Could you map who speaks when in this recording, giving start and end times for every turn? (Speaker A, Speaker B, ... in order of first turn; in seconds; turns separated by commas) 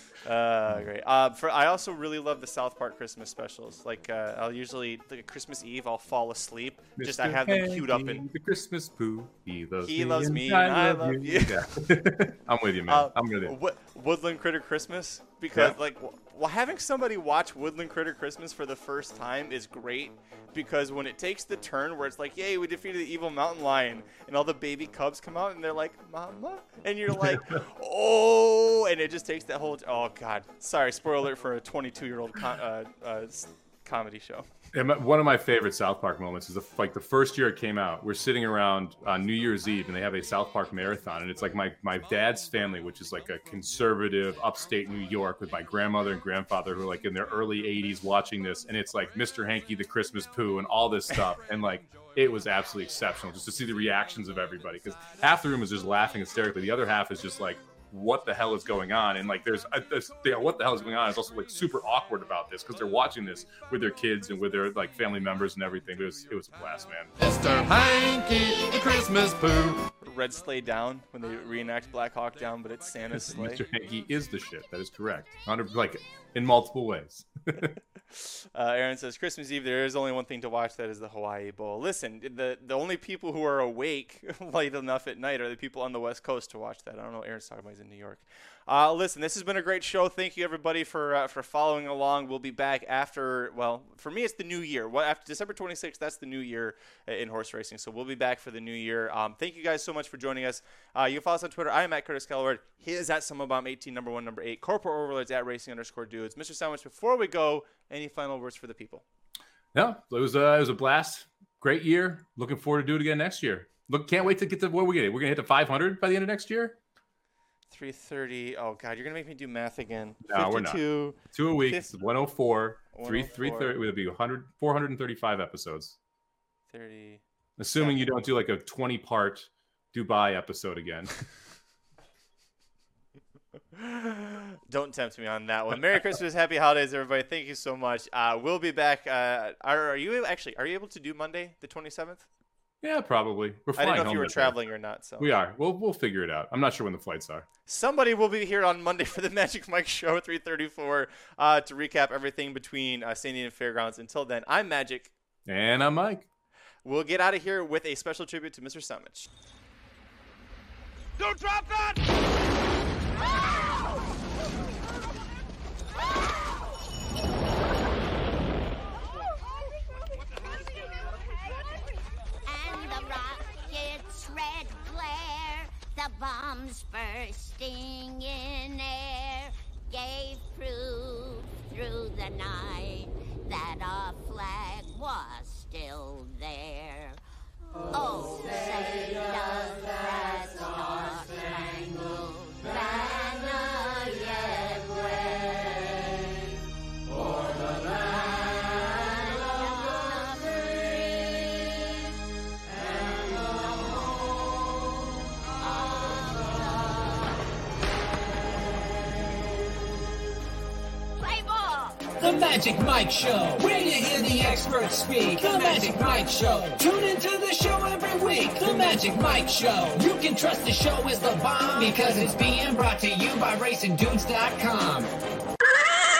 Speaker A: 0.2-8.2, Speaker B: 7.0-13.6, Speaker A: 9.8-11.7, Speaker A: 12.9-34.5, Speaker B: 34.7-67.2, Speaker C: 67.2-69.9, Speaker A: 70.0-73.6, Speaker B: 73.1-77.8, Speaker A: 78.2-109.0, Speaker B: 109.7-116.8, Speaker A: 117.7-121.9, Speaker B: 120.2-126.0, Speaker A: 122.9-123.8, Speaker A: 126.7-127.2, Speaker B: 127.6-131.2, Speaker A: 127.8-128.1, Speaker A: 133.7-142.3, Speaker B: 142.8-144.6, Speaker A: 143.8-145.3, Speaker B: 145.2-147.5, Speaker A: 147.7-155.1, Speaker B: 155.4-156.3, Speaker A: 156.8-159.3, Speaker D: 172.4-187.2, Speaker D: 187.9-196.2, Speaker D: 197.1-202.1, Speaker D: 202.8-204.6, Speaker D: 205.5-207.4, Speaker D: 211.2-212.1, Speaker E: 212.2-225.1